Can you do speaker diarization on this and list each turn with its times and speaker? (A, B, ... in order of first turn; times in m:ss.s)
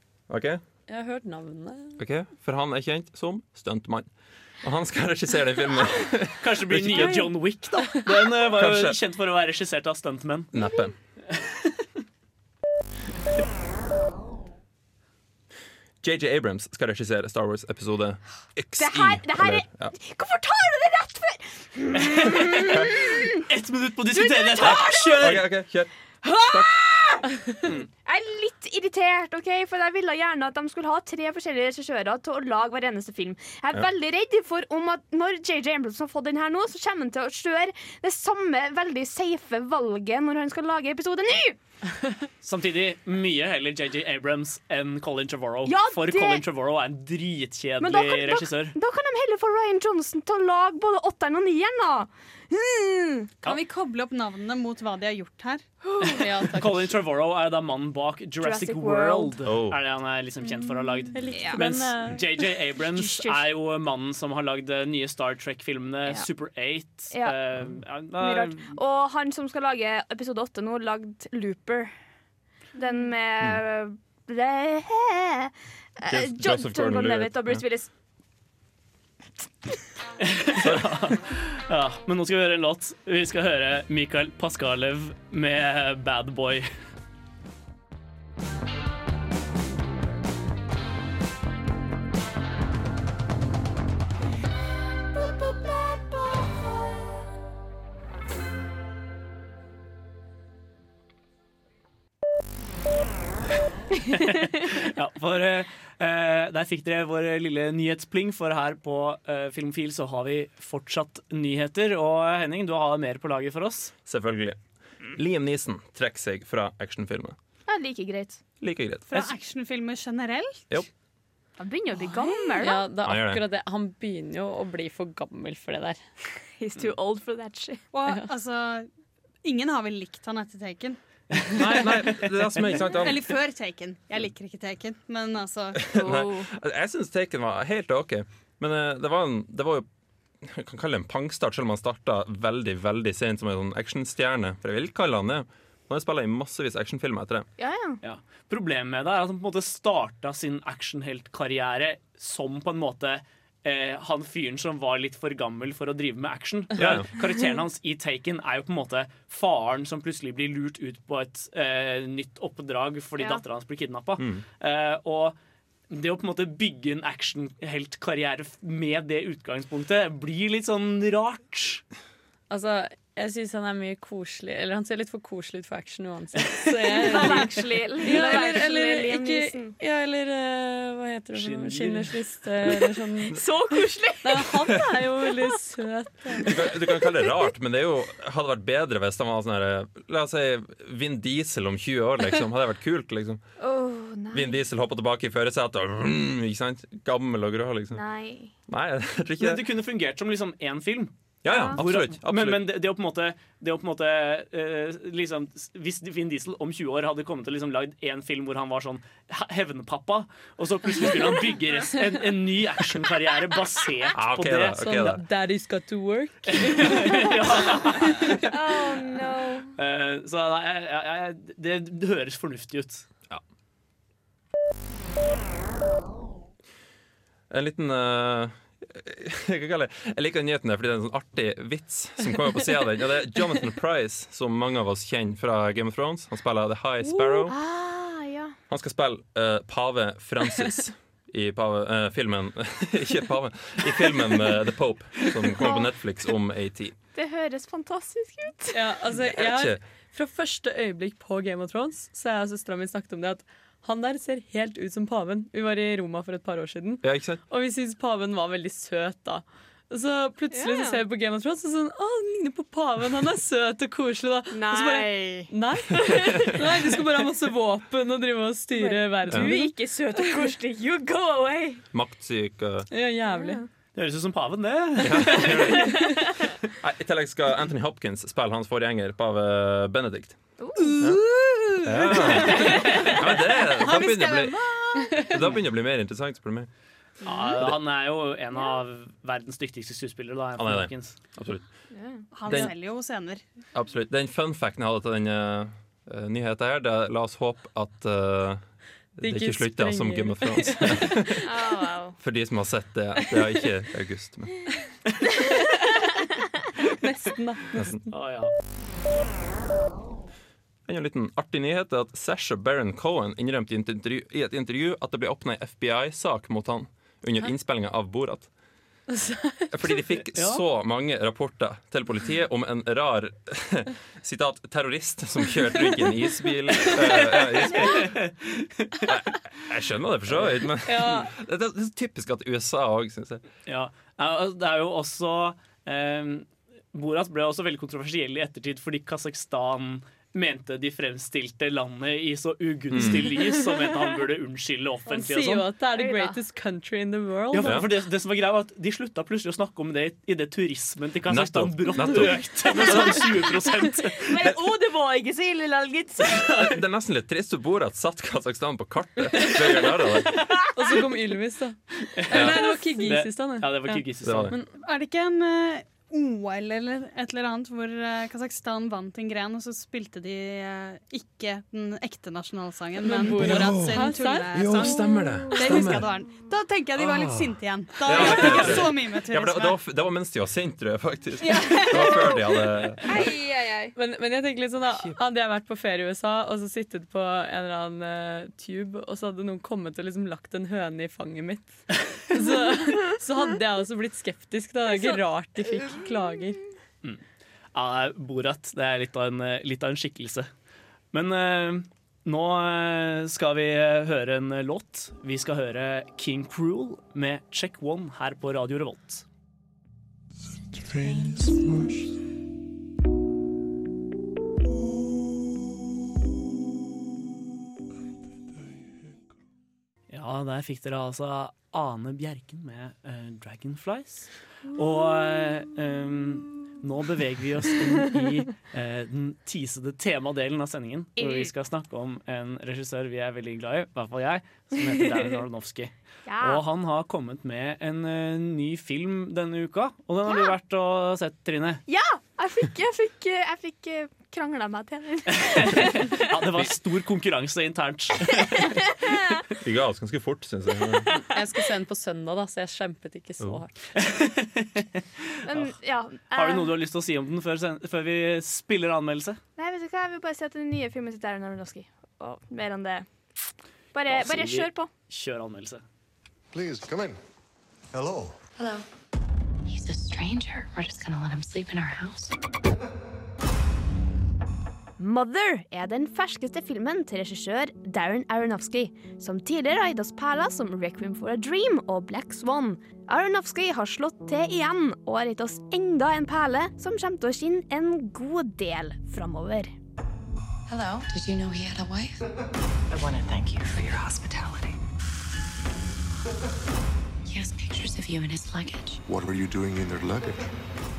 0:00.3-0:00.6 A
0:00.9-0:02.0 B
0:02.0-0:07.2 A
0:06.4-0:10.5 C
0:08.5-0:09.0 A
0:10.5-0:10.9 A
0:11.3-0:11.7 C
0:16.0-0:19.9 A
0:18.8-0:23.4 D
0:22.0-0:22.8 C
0:23.5-0:25.4 C
0:24.1-0:25.3 D
0:24.6-0:26.7 A
0:26.2-0:27.2 D
0:28.0-0:41.6 D
0:42.4-0:48.7 C
0:45.6-0:46.4 D
0:47.8-0:53.4 D
0:53.4-0:55.6 E
0:55.8-0:56.2 D
0:56.1-1:08.8 C
0:56.2-0:56.9 B
0:58.4-0:59.4 D
0:59.4-0:59.8 A
1:01.1-1:02.2 B
1:01.3-1:02.1 D
1:02.9-1:03.5 D
1:07.1-1:07.4 D
1:08.2-1:12.0 D
1:12.7-1:17.9 D
1:16.1-1:17.6 A
1:20.4-1:26.7 C
1:20.6-1:20.9 A
1:44.1-1:53.9 C
1:54.0-1:54.6 A
1:55.1-1:57.4 A
1:57.7-1:58.4 D
1:58.6-1:59.0 A
1:59.1-2:00.8 E
2:01.6-2:02.8 D
2:02.0-2:02.6 E
2:02.6-2:06.0 B
2:03.0-2:03.4 A
2:06.6-2:07.8 D
2:07.9-2:08.9 E
2:09.4-2:11.0 E
2:11.3-2:12.8 C
2:11.5-2:13.2 A
2:12.8-2:15.9 E
2:15.9-2:19.9 A
2:16.0-2:16.5 D
2:20.4-2:27.5 A
2:27.6-2:28.0 D
2:28.0-2:45.4 C
2:36.8-2:37.1 A
2:44.2-2:44.4 A
2:45.9-2:51.8 C
2:52.5-3:03.4 B
2:56.9-2:59.7 D
2:57.0-2:57.5 C
3:01.3-3:02.2 C
3:03.2-3:04.5 D
3:04.2-3:06.5 B
3:06.4-3:13.4 A
3:13.6-3:14.6 D
3:14.3-3:18.0 A
3:17.9-3:18.5 D
3:18.7-3:19.6 A
3:19.4-3:21.1 C
3:21.4-3:22.6 A
3:21.5-3:21.8 D
3:21.8-3:34.8 C
3:34.1-3:35.2 A
3:34.8-3:37.4 B
3:36.5-3:38.5 C
3:38.5-3:39.7 D
3:39.8-3:43.1 C
3:47.5-3:57.5 A
3:57.5-3:58.5 D
3:58.7-4:06.9 A
4:05.6-4:05.9 D
4:07.1-4:08.8 D
4:08.7-4:29.7 B
4:09.2-4:09.8 A
4:17.0-4:17.4 A
4:20.5-4:21.0 D
4:24.5-4:25.5 D
4:26.1-4:26.6 D
4:28.7-4:31.8 D
4:31.9-4:32.9 A
4:32.9-4:33.6 B
4:33.3-4:33.7 D
4:33.9-4:35.7 C
4:35.0-4:36.1 A
4:36.8-4:41.2 A
4:40.6-4:41.0 D
4:41.8-4:44.6 A
4:42.4-4:42.8 D
4:43.6-4:45.2 E
4:45.2-4:46.7 A
4:47.2-4:47.6 D
4:47.3-4:51.2 C
4:48.5-4:48.8 D
4:50.6-4:52.7 A
4:51.9-4:52.5 D
4:52.3-4:53.4 E
4:53.7-5:01.4 A
4:59.2-5:01.2 B
5:01.4-5:02.2 D
5:02.2-5:04.6 A
5:07.0-5:08.1 B
5:07.7-5:08.0 A
5:08.1-5:08.5 C
5:10.9-5:18.5 A
5:19.1-5:19.7 B
5:19.7-5:28.1 A
5:20.3-5:20.6 C
5:27.8-5:29.0 C
5:29.1-5:33.4 A
5:30.3-5:30.6 C
5:30.8-5:31.3 B
5:33.7-5:45.7 C
5:42.9-5:43.3 A
5:45.1-5:47.8 B
5:45.9-5:46.4 D
5:47.5-5:54.4 C
5:47.6-5:47.9 A
5:51.3-5:53.3 A
5:52.7-5:53.3 D
5:54.2-5:56.6 D
5:56.4-6:00.4 A
6:00.7-6:04.7 B
6:02.1-6:04.5 C
6:02.3-6:02.6 A
6:04.2-6:04.5 A
6:04.8-6:19.8 E
6:13.0-6:14.9 B
6:13.3-6:16.0 A
6:15.3-6:15.8 D
6:17.0-6:23.2 A
6:18.1-6:18.6 D
6:21.5-6:22.6 E
6:23.0-6:23.9 D
6:23.9-6:36.6 B
6:34.9-6:35.2 D
6:37.7-6:40.5 C
6:41.1-6:49.2 C
6:51.4-6:51.8 F
7:00.1-7:21.8 C
7:11.2-7:11.5 D
7:16.2-7:16.6 D
7:20.2-7:20.5 D
7:21.9-7:26.4 D
7:25.3-7:28.7 C
7:28.6-7:29.4 D
7:29.6-7:31.1 A
7:31.3-7:33.7 B
7:34.0-7:34.9 C
7:35.4-7:36.7 D
7:35.5-7:35.7 C
7:36.3-7:39.4 C
7:39.6-7:43.1 D
7:43.9-7:44.9 D
7:44.1-7:45.8 C
7:46.5-7:47.2 F
7:47.9-7:48.3 F
7:49.6-7:52.3 G
7:55.0-8:09.7 D
8:10.7-8:12.2 G
8:12.9-8:14.8 G
8:17.2-8:19.0 G
8:19.1-8:20.4 F